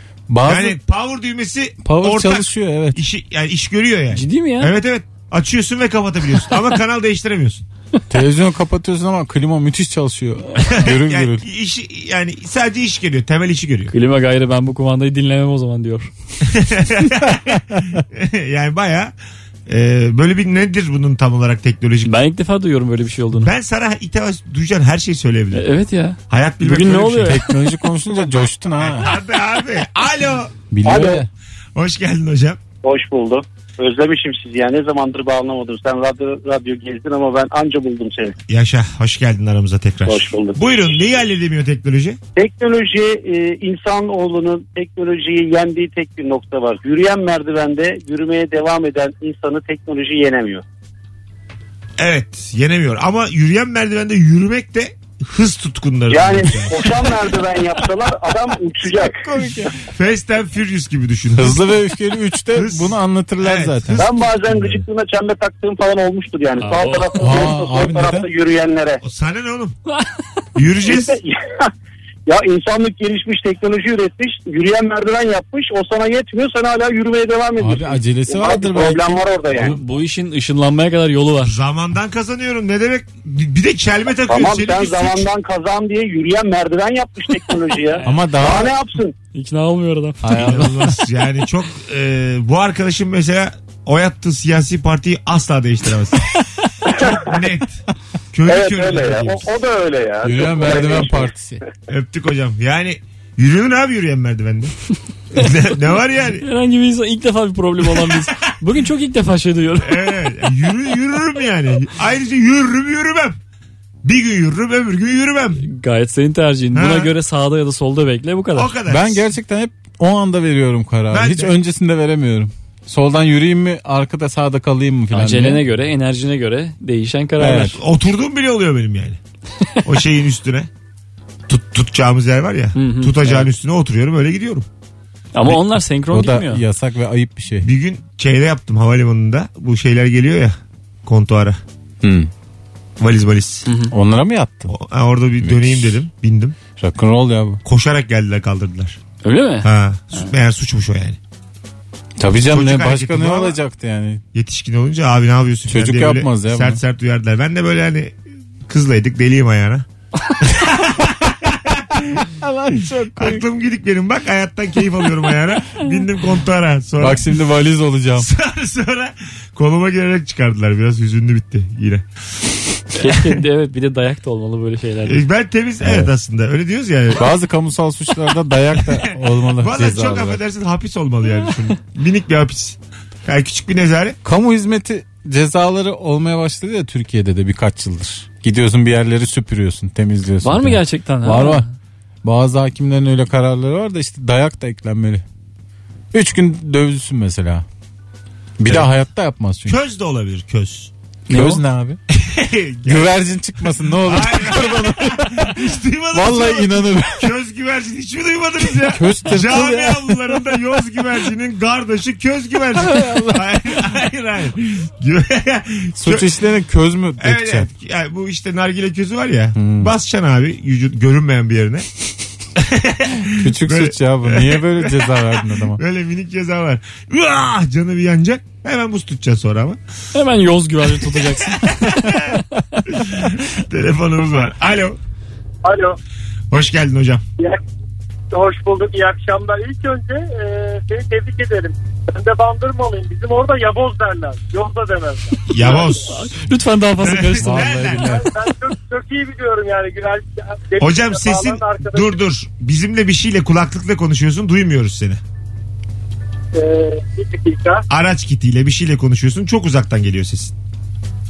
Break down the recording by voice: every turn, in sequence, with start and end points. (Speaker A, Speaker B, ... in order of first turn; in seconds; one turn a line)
Speaker A: 0.3-0.8
Speaker B: 0.4-7.7
Speaker A: 1.8-3.0
Speaker C: 4.1-4.7
Speaker A: 8.1-11.4
Speaker B: 10.7-13.9
Speaker C: 13.9-16.1
Speaker B: 16.5-19.1
Speaker B: 19.7-22.1
Speaker C: 22.1-23.5
Speaker B: 23.4-25.7
Speaker C: 25.5-27.5
Speaker B: 26.3-27.4
Speaker A: 27.2-29.2
Speaker B: 28.8-30.5
Speaker A: 30.7-31.3
Speaker D: 30.9-31.2
Speaker B: 31.8-32.6
Speaker D: 32.8-38.4
Speaker B: 38.5-42.2
Speaker D: 40.1-40.6
Speaker D: 42.4-50.6
Speaker B: 52.0-57.2
Speaker D: 56.1-59.2
Speaker A: 58.9-59.7
Speaker B: 59.9-61.8
Speaker A: 61.4-64.7
Speaker B: 62.5-64.8
Speaker D: 64.0-69.0
Speaker C: 66.6-67.4
Speaker A: 67.2-68.3
Speaker B: 69.0-69.8
Speaker B: 70.6-71.2
Speaker D: 70.8-71.7
Speaker D: 72.3-79.8
Speaker A: 77.6-79.8
Speaker C: 79.5-81.6
Speaker B: 81.4-85.3
Speaker D: 84.3-89.2
Speaker C: 87.9-88.3
Speaker A: 88.0-88.8
Speaker C: 89.3-90.6
Speaker A: 90.2-91.0
Speaker B: 90.3-96.3
Speaker B: 96.9-99.5
Speaker D: 98.5-101.3
Speaker A: 100.2-101.6
Speaker B: 101.9-104.7
Speaker B: 105.3-106.5
Speaker C: 106.4-110.2
Speaker B: 109.8-113.4
Speaker B: 114.0-115.6
Speaker C: 115.6-118.7
Speaker B: 116.7-117.1
Speaker B: 118.5-119.2
Speaker A: 118.9-125.7
Speaker B: 121.1-121.5
Speaker C: 125.1-127.8
Speaker A: 127.4-127.8
Speaker B: 127.5-129.2
Speaker B: 129.8-130.7
Speaker B: 131.5-134.7
Speaker C: 132.8-133.5
Speaker C: 135.3-136.6
Speaker A: 136.1-137.7
Speaker B: 137.6-141.6
Speaker A: 142.0-142.3
Speaker B: 143.0-143.7
Speaker C: 143.7-143.9
Speaker A: 143.9-144.7
Speaker B: 144.7-146.6
Speaker A: 145.4-146.0
Speaker A: 146.8-147.6
Speaker B: 147.7-149.0
Speaker C: 149.2-150.3
Speaker B: 149.6-151.2
Speaker A: 152.2-154.2
Speaker B: 152.5-153.6
Speaker B: 154.3-158.2
Speaker A: 155.7-156.8
Speaker B: 158.7-159.8
Speaker B: 160.4-162.2
Speaker A: 162.2-163.4
Speaker B: 163.2-167.3
Speaker A: 167.0-168.3
Speaker B: 168.2-172.0
Speaker C: 172.9-175.2
Speaker B: 173.0-173.2
Speaker B: 175.1-177.3
Speaker A: 175.8-176.1
Speaker A: 177.2-180.4
Speaker B: 178.9-184.2
Speaker A: 184.2-191.7
Speaker C: 190.4-191.7
Speaker A: 192.2-195.2
Speaker A: 196.1-197.7
Speaker A: 198.6-199.8
Speaker B: 199.7-200.9
Speaker C: 201.3-201.6
Speaker A: 201.3-202.0
Speaker B: 202.1-216.3
Speaker A: 202.8-207.3
Speaker A: 208.8-210.5
Speaker A: 212.8-213.7
Speaker A: 216.0-217.7
Speaker B: 217.2-221.9
Speaker A: 219.6-219.9
Speaker B: 222.6-229.8
Speaker A: 223.4-225.8
Speaker C: 230.1-232.8
Speaker B: 231.6-235.0
Speaker E: 235.6-236.0
Speaker B: 236.5-237.2
Speaker E: 238.3-246.0
Speaker B: 245.5-246.2
Speaker C: 246.1-248.0
Speaker B: 247.0-248.2
Speaker A: 247.4-248.3
Speaker E: 248.0-252.2
Speaker B: 250.8-255.2
Speaker E: 256.5-257.9
Speaker B: 257.9-260.5